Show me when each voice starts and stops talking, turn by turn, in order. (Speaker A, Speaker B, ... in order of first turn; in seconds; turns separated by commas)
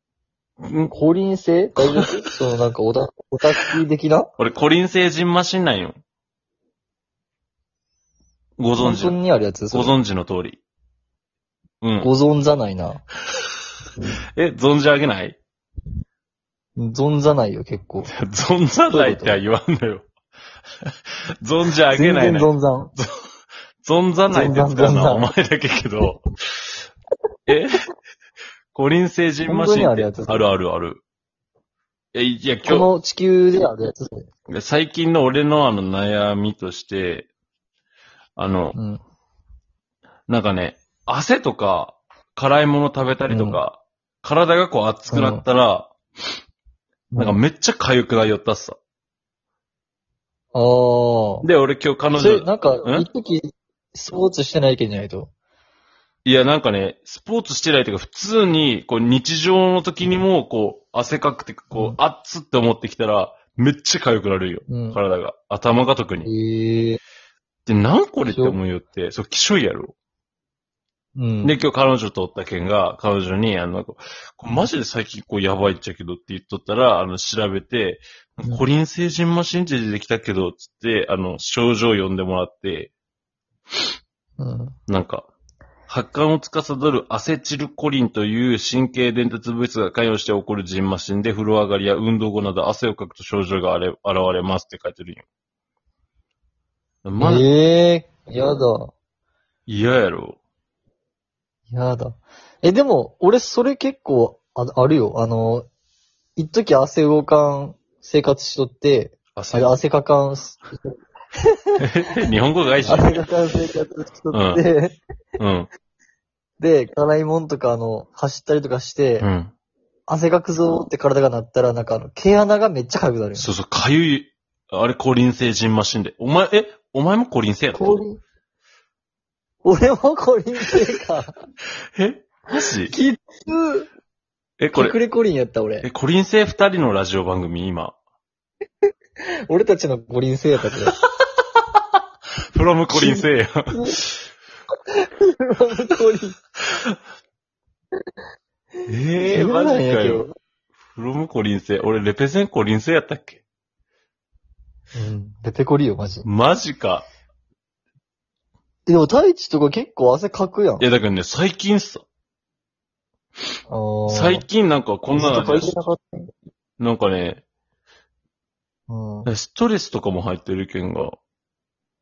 Speaker A: 0.6-0.9, Speaker B: 0.9-4.3, Speaker A: 1.8-2.2, Speaker A: 4.4-6.0, Speaker A: 8.6-9.2, Speaker B: 8.8-9.9, Speaker A: 9.7-10.6, Speaker A: 11.8-12.1, Speaker B: 12.0-13.0, Speaker A: 14.4-15.4, Speaker B: 16.8-18.1, Speaker A: 18.1-20.1, Speaker B: 18.9-19.4, Speaker A: 21.4-23.1, Speaker B: 21.9-22.9, Speaker A: 23.8-26.7, Speaker B: 24.3-25.3, Speaker A: 27.5-27.7, Speaker A: 28.7-31.0, Speaker B: 29.4-30.5, Speaker A: 32.1-32.9, Speaker B: 32.6-34.3, Speaker A: 34.5-37.3, Speaker A: 38.4-38.8, Speaker B: 38.7-39.0, Speaker A: 40.3-45.9, Speaker B: 43.3-43.6, Speaker B: 45.1-45.4, Speaker B: 47.1-47.4, Speaker A: 47.2-48.8, Speaker B: 50.5-51.5, Speaker A: 51.4-53.1, Speaker B: 52.2-53.4, Speaker B: 53.9-55.3, Speaker A: 56.2-66.3, Speaker B: 61.7-62.0, Speaker B: 64.7-65.0, Speaker B: 66.2-67.0, Speaker A: 67.7-70.0, Speaker B: 68.2-68.6, Speaker B: 71.2-71.5, Speaker A: 71.4-82.9, Speaker B: 84.4-84.8, Speaker A: 84.9-85.3, Speaker A: 85.9-95.2, Speaker A: 97.0-97.5, Speaker B: 97.2-98.9, Speaker A: 99.7-100.4, Speaker B: 101.7-105.7, Speaker B: 106.3-110.9, Speaker A: 109.3-109.8, Speaker A: 111.8-113.2, Speaker B: 112.8-115.0, Speaker A: 114.3-114.6, Speaker A: 115.4-115.7, Speaker B: 116.6-119.3, Speaker A: 119.2-119.5, Speaker B: 120.1-123.5, Speaker A: 123.3-128.0, Speaker B: 127.7-128.2, Speaker B: 129.6-131.4, Speaker A: 131.9-132.9, Speaker B: 132.9-133.9, Speaker A: 134.6-134.9, Speaker B: 134.7-135.9, Speaker A: 135.8-137.9, Speaker B: 139.5-141.0, Speaker A: 142.5-144.2, Speaker B: 142.9-144.0, Speaker B: 145.2-146.3, Speaker A: 148.9-150.2, Speaker B: 149.2-150.3, Speaker A: 150.9-153.4, Speaker B: 154.9-156.3, Speaker A: 156.2-157.1, Speaker B: 158.8-160.8, Speaker A: 160.8-162.0, Speaker B: 163.7-164.4, Speaker A: 164.1-165.8, Speaker B: 165.1-166.3, Speaker A: 166.8-167.4, Speaker B: 168.9-169.3, Speaker A: 169.2-171.2